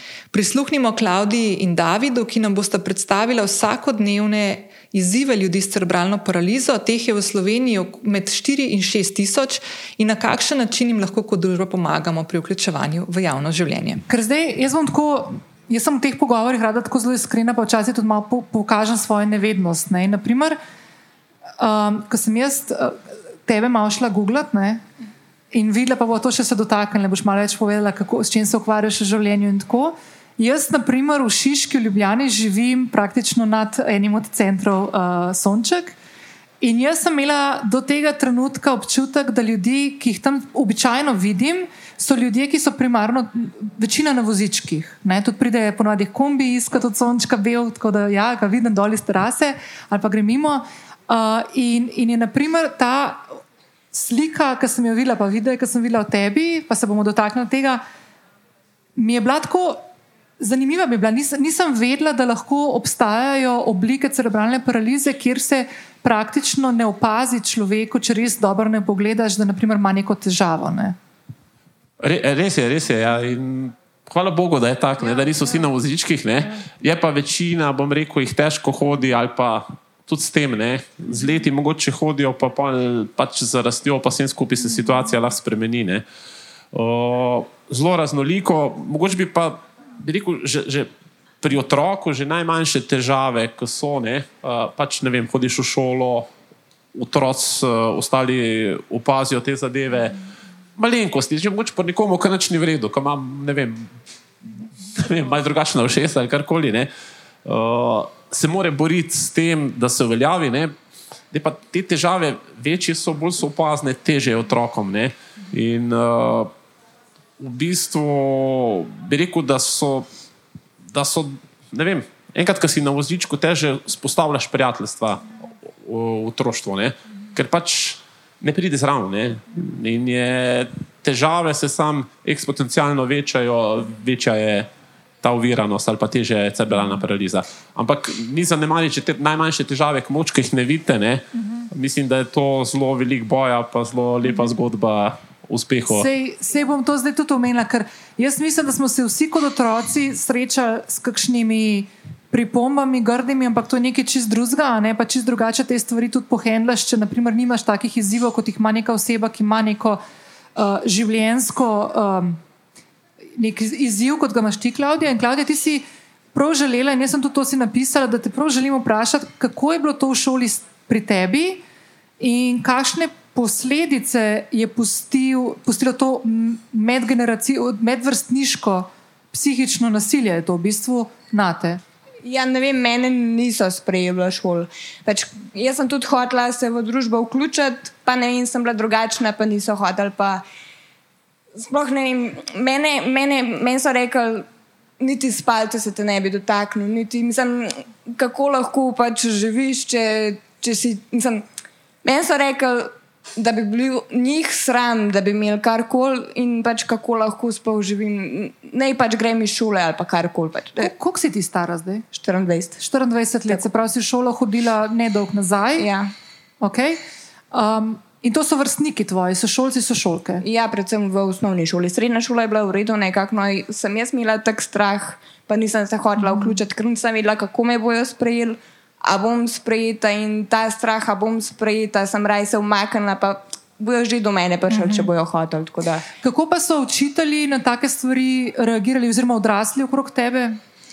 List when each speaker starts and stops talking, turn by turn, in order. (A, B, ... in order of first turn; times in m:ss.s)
0:00.3-0:14.0 A
0:14.1-0:20.6 B
0:21.6-0:24.8 B
0:25.5-0:35.9 B
0:36.6-0:53.3 B
0:53.9-0:57.8 B
0:59.0-0:59.8 B
1:00.4-1:11.0 B
1:12.0-1:26.0 C
1:26.7-1:30.9 C
1:31.4-1:36.3 C
1:36.9-1:40.2 C
1:40.8-1:43.9 C
1:44.9-1:46.9 C
1:47.4-1:50.7 C
1:51.3-1:56.5 C
1:57.4-2:00.1 C
2:00.9-2:14.7 C
2:15.2-2:26.1 C
2:25.9-2:40.0 B
2:40.6-2:42.4 B
2:43.4-2:51.6 B
2:52.2-3:01.8 B
3:02.2-3:10.4 D
3:11.6-3:14.5 D
3:15.0-3:21.4 D
3:22.0-3:30.9 D
3:30.8-3:32.0 B
3:32.1-3:32.8 D
3:32.8-3:35.9 B
3:35.8-3:36.1 D
3:36.6-3:40.4 B
3:40.4-3:56.0 D
3:46.2-3:46.6 B
3:54.7-3:55.1 B
3:56.2-4:00.6 B